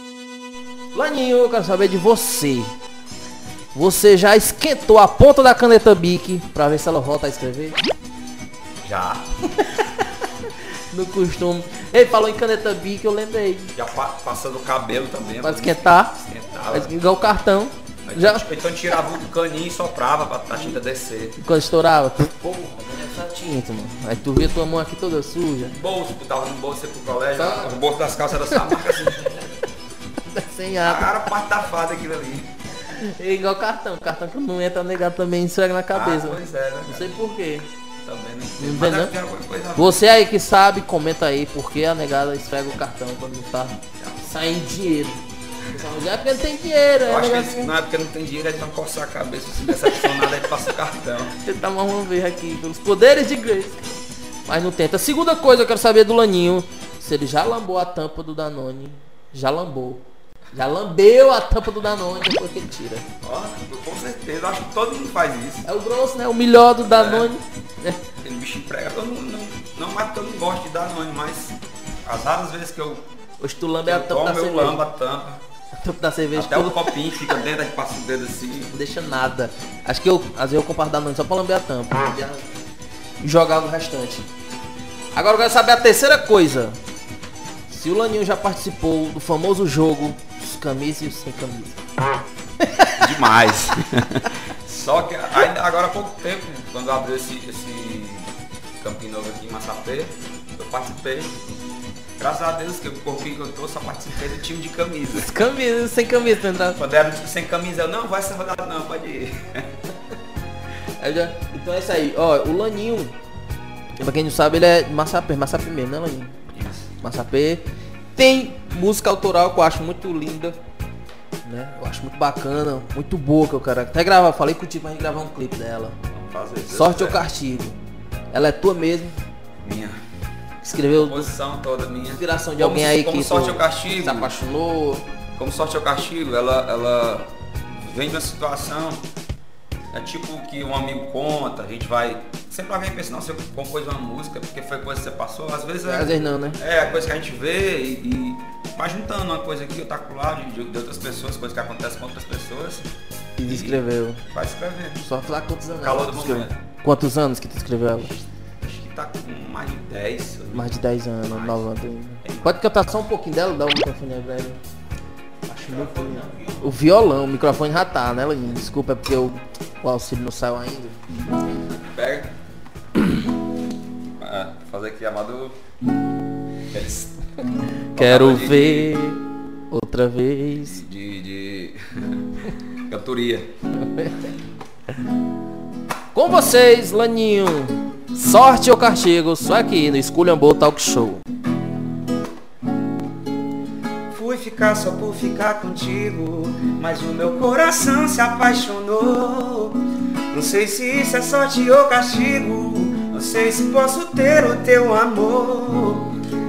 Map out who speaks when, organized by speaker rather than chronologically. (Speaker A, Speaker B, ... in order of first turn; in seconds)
Speaker A: 0.9-2.7, 3.7-7.8, 10.9-13.7, 15.4-16.1, 16.7-18.4, 21.4-25.8, 27.4-27.8, 28.4-28.7, 30.3-31.2, 32.9-37.7, 38.6-39.1, 39.8-45.2, 45.7-47.7, 51.4-53.9, 54.5-63.1, 65.7-68.0, 73.4-74.8, 75.8-76.9, 78.7-82.5, 83.2-84.3, 85.1-86.8, 87.7-91.8, 92.6-93.1, 105.1-106.8, 111.0-113.2, 114.0-116.3, 117.0-117.7, 118.2-120.6, 121.5-126.0, 126.7-127.8, 128.3-129.2, 130.6-131.3, 132.1-135.1, 145.8-146.6, 153.4-154.2, 155.0-158.1, 160.5-164.6, 165.5-171.0, 177.9-180.8, 183.8-184.3, 186.1-191.2
Speaker B: 8.8-9.3, 13.8-16.9, 18.1-21.4, 25.7-29.4, 30.8-32.5, 35.9-37.1, 38.0-40.0, 47.1-51.3, 63.2-65.7, 66.8-67.3, 68.2-73.0, 73.8-75.4, 76.3-78.7, 93.0-101.4, 102.2-105.3, 106.8-109.7, 116.5-116.9, 126.1-127.2, 129.6-130.0, 130.9-134.3, 135.4-139.1, 139.9-152.9, 153.4-155.1, 155.8-156.6, 158.0-161.7, 162.2-162.6, 165.6-166.6, 171.9-172.3, 174.2-175.6, 176.7-177.2, 177.9-179.0, 180.6-183.5
Speaker C: 194.1-199.8, 200.3-206.1